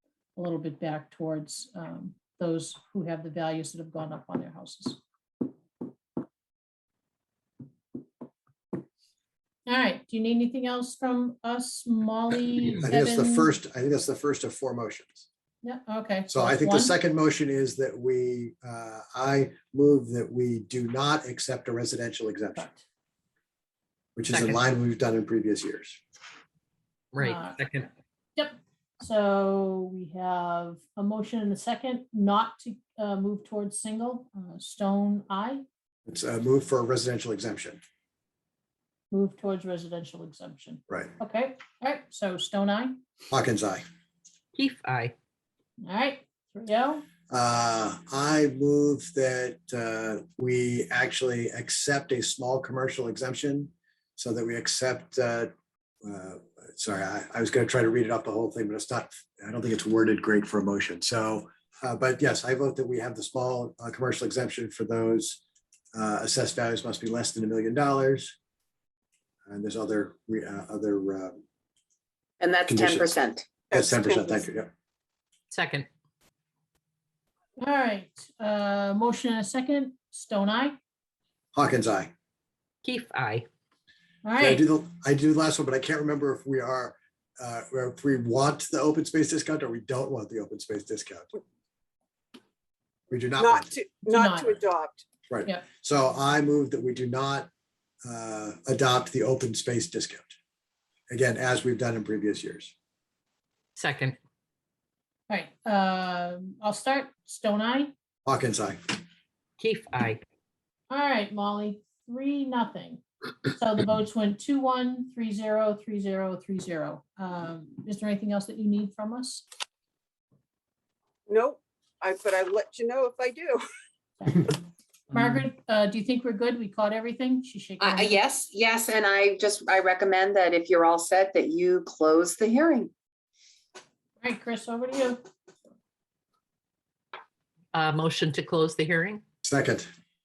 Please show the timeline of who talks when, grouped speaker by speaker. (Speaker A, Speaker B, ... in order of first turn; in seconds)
Speaker A: 0.4-5.0, 9.7-13.5, 15.6-17.0, 22.6-22.9, 27.2-27.6, 28.4-35.6, 39.1-43.0, 45.8-47.0, 77.6-80.8, 84.2-84.6, 94.1-94.5, 105.3-107.9, 110.9-113.0, 113.5-119.5, 124.2-124.6, 125.1-128.2, 134.2-135.2
Speaker B: 12.8-15.3, 16.3-22.7, 24.2-26.0, 36.1-37.8, 43.3-43.8, 47.3-55.5, 56.0-65.4, 65.9-68.3, 69.5-71.4, 72.7-73.1, 73.7-74.7, 81.5-82.1, 84.4-91.3, 93.1-93.7, 95.3-97.5, 98.0-100.4, 101.1-102.7, 108.3-108.8, 139.4-139.9
Speaker C: 24.3-24.6, 27.1-27.9, 44.5-45.1, 75.5-75.9, 82.8-83.5, 103.8-104.2, 109.6-110.2, 137.7-139.2
Speaker D: 72.4-73.5, 127.8-132.9
Speaker E: 73.7-74.4, 93.4-95.0, 121.3-123.6